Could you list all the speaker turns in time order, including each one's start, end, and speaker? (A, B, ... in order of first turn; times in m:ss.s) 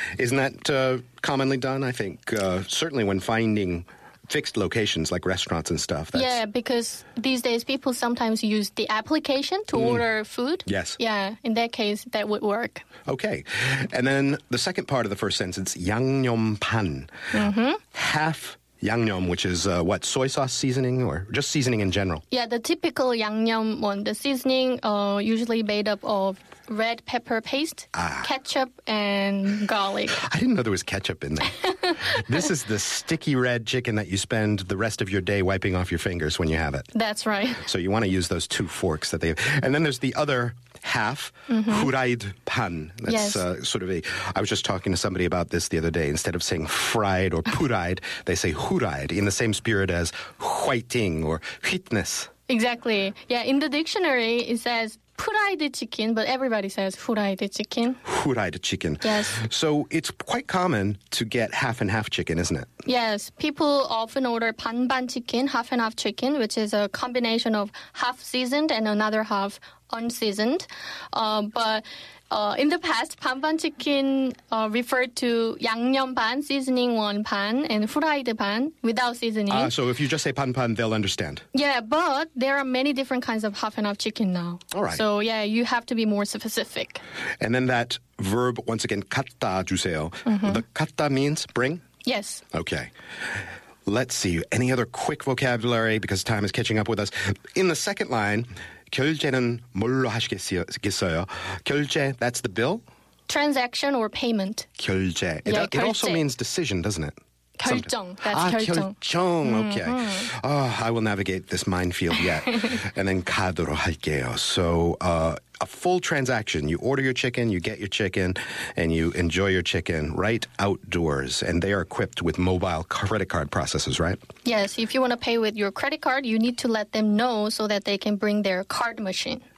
0:00.2-0:06.4 A
0:06.1-0:12.8 B
0:09.7-0:10.0 A
0:10.6-0:11.0 A
0:13.1-0:17.1 A
0:17.3-0:17.8 B
0:17.9-0:22.2 A
0:22.3-0:30.2 B
0:27.9-0:28.3 A
0:30.1-0:36.9 A
0:36.9-0:37.6 B
0:37.6-0:52.3 A
0:41.5-0:41.9 B
0:43.1-0:43.4 B
0:52.5-0:58.0 B
0:58.0-1:02.7 A
0:59.0-0:59.4 B
1:02.8-1:19.7 B
1:19.5-1:21.4 A
1:21.5-1:27.0 B
1:24.7-1:25.0 A
1:27.4-1:31.8 A
1:30.2-1:30.6 B
1:32.0-1:32.4 B
1:32.5-1:32.9 A
1:33.8-1:42.8 A
1:43.3-1:44.7 B
1:44.8-2:04.2 A
1:45.4-1:46.2 B
1:47.6-1:50.2 B
2:04.4-2:09.4 B